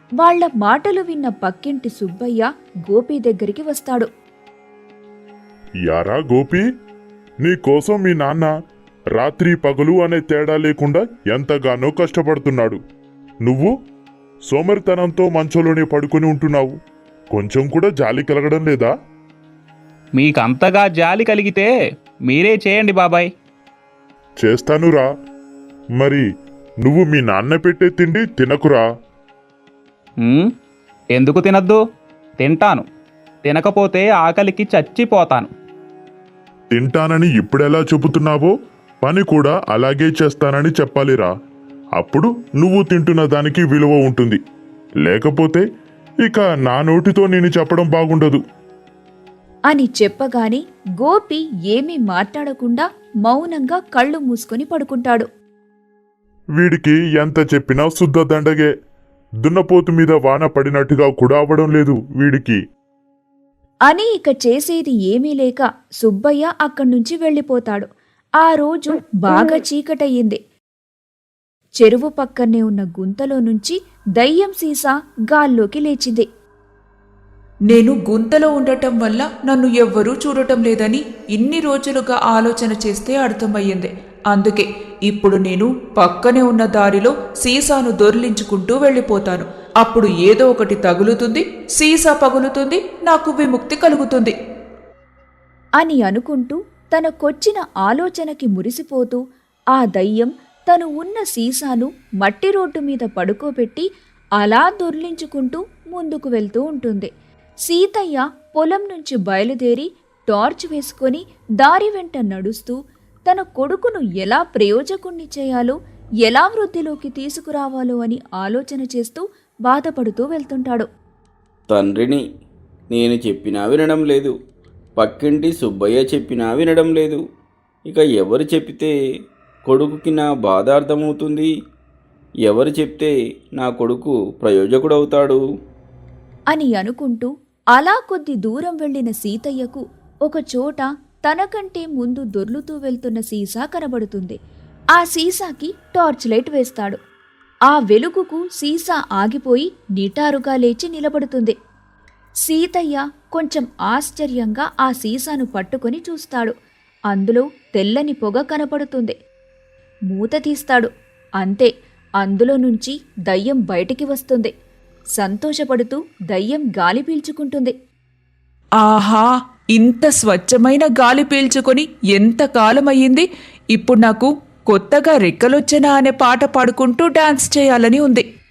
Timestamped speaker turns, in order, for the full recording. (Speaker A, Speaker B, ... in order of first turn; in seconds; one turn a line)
Speaker A: 0.2-4.1
Speaker B: 5.9-6.6
Speaker B: 7.4-8.5
Speaker B: 9.2-12.8
Speaker B: 13.4-13.7
Speaker B: 14.5-16.8
Speaker B: 17.3-18.9
Speaker C: 20.2-21.7
Speaker C: 22.3-23.3
Speaker B: 24.4-25.1
Speaker B: 26.8-28.9
Speaker C: 30.2-30.5
Speaker C: 31.1-31.8
Speaker C: 32.4-32.9
Speaker C: 33.4-35.5
Speaker B: 36.7-38.5
Speaker B: 39.0-41.3
Speaker B: 42.0-44.4
Speaker B: 45.0-45.6
Speaker B: 46.2-48.4
Speaker A: 49.7-55.3
Speaker B: 56.6-58.7
Speaker B: 59.4-62.6
Speaker A: 63.9-67.9
Speaker A: 68.4-70.4
Speaker A: 71.8-76.3
Speaker D: 77.7-94.3
Speaker A: 95.8-99.2
Speaker A: 99.8-103.8
Speaker A: 104.4-107.1
Speaker A: 107.7-112.8
Speaker A: 113.3-120.9
Speaker E: 121.7-122.2
Speaker E: 122.9-124.3
Speaker E: 125.0-127.2
Speaker E: 127.9-128.9
Speaker E: 129.7-131.5
Speaker E: 132.5-135.4
Speaker A: 136.5-144.4
Speaker A: 144.9-147.0
Speaker A: 147.7-151.5
Speaker A: 152.5-156.5
Speaker A: 157.1-159.2
Speaker A: 160.1-160.9
Speaker A: 161.4-164.5
Speaker A: 165.2-167.8
Speaker D: 168.8-178.2